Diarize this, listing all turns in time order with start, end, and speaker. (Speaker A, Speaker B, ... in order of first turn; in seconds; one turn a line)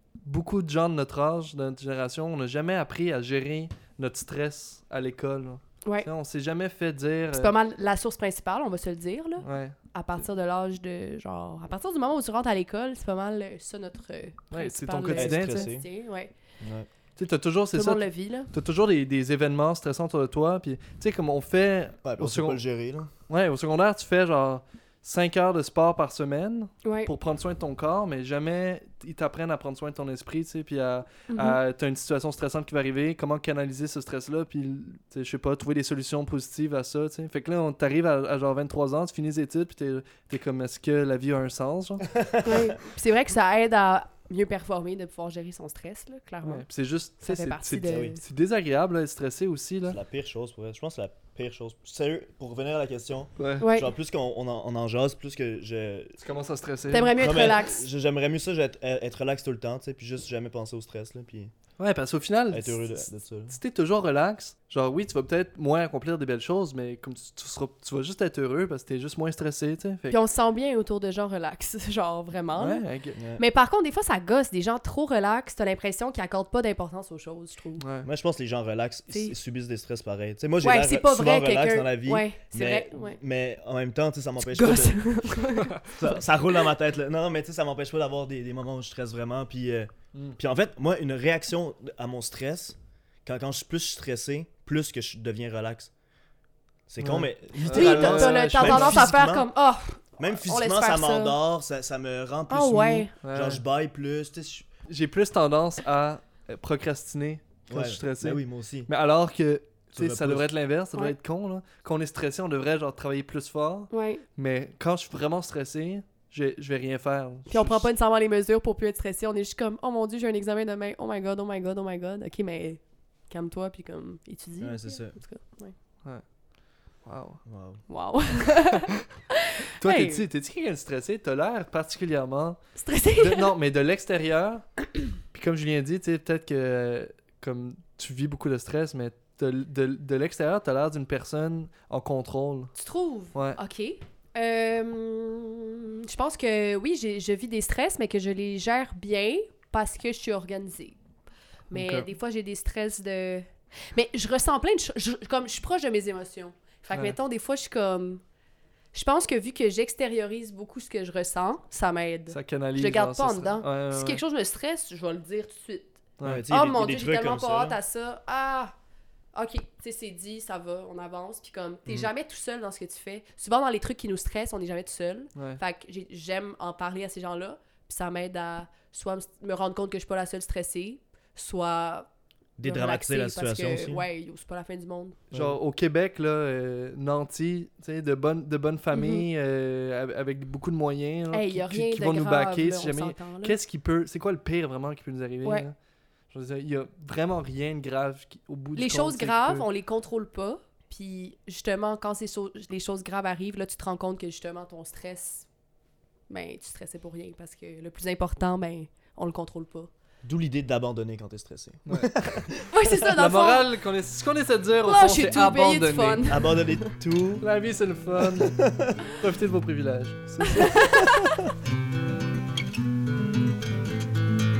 Speaker A: 0.2-7.5
Speaker B: 7.3-16.3
Speaker A: 9.4-9.8
Speaker A: 14.5-15.7
Speaker C: 15.1-15.9
Speaker C: 16.6-16.9
Speaker A: 17.2-22.6
Speaker B: 17.7-18.5
Speaker C: 22.0-23.1
Speaker A: 23.3-42.1
Speaker B: 26.8-27.1
Speaker B: 31.3-31.6
Speaker C: 42.2-42.7
Speaker B: 42.4-46.7
Speaker A: 46.4-50.0
Speaker B: 47.2-48.2
Speaker C: 47.9-48.2
Speaker C: 49.9-56.2
Speaker A: 53.4-53.7
Speaker B: 53.6-53.9
Speaker A: 56.2-57.2
Speaker B: 56.9-57.9
Speaker C: 57.2-61.5
Speaker A: 61.8-70.2
Speaker C: 62.5-63.6
Speaker B: 70.1-77.8
Speaker A: 72.6-73.2
Speaker C: 73.2-73.4
Speaker A: 77.8-78.1
Speaker C: 78.0-85.0
Speaker B: 79.1-79.4
Speaker B: 80.6-83.2
Speaker B: 84.4-85.8
Speaker C: 86.0-95.9
Speaker C: 96.9-99.5
Speaker A: 97.0-99.1
Speaker B: 97.7-101.4
Speaker C: 100.2-104.7
Speaker B: 102.5-103.1
Speaker A: 103.2-103.6
Speaker A: 104.9-117.9
Speaker C: 107.7-108.9
Speaker C: 110.0-110.5
Speaker B: 113.9-114.2
Speaker B: 117.5-125.8
Speaker C: 124.6-125.2
Speaker A: 127.0-127.4
Speaker C: 127.5-127.8
Speaker B: 127.9-130.2
Speaker A: 129.8-132.6
Speaker B: 132.8-133.5
Speaker A: 133.1-142.7
Speaker B: 142.8-151.0
Speaker A: 143.3-143.6
Speaker B: 151.7-158.2
Speaker A: 151.7-152.1
Speaker A: 156.9-157.2
Speaker B: 158.9-166.0
Speaker A: 162.3-164.2
Speaker A: 166.2-166.5
Speaker C: 166.2-167.8
Speaker B: 166.5-168.7
Speaker B: 169.3-182.1
Speaker C: 182.6-184.1
Speaker B: 182.6-185.2
Speaker A: 185.3-195.8
Speaker B: 188.9-189.2
Speaker B: 191.3-193.6
Speaker A: 196.3-199.7
Speaker B: 198.8-205.5
Speaker B: 206.3-209.9
Speaker C: 210.2-212.6
Speaker A: 211.9-212.1
Speaker B: 212.7-213.7
Speaker A: 213.1-216.3
Speaker B: 214.8-216.8
Speaker C: 216.3-217.4
Speaker A: 217.4-221.0
Speaker C: 218.2-218.9
Speaker B: 220.5-221.3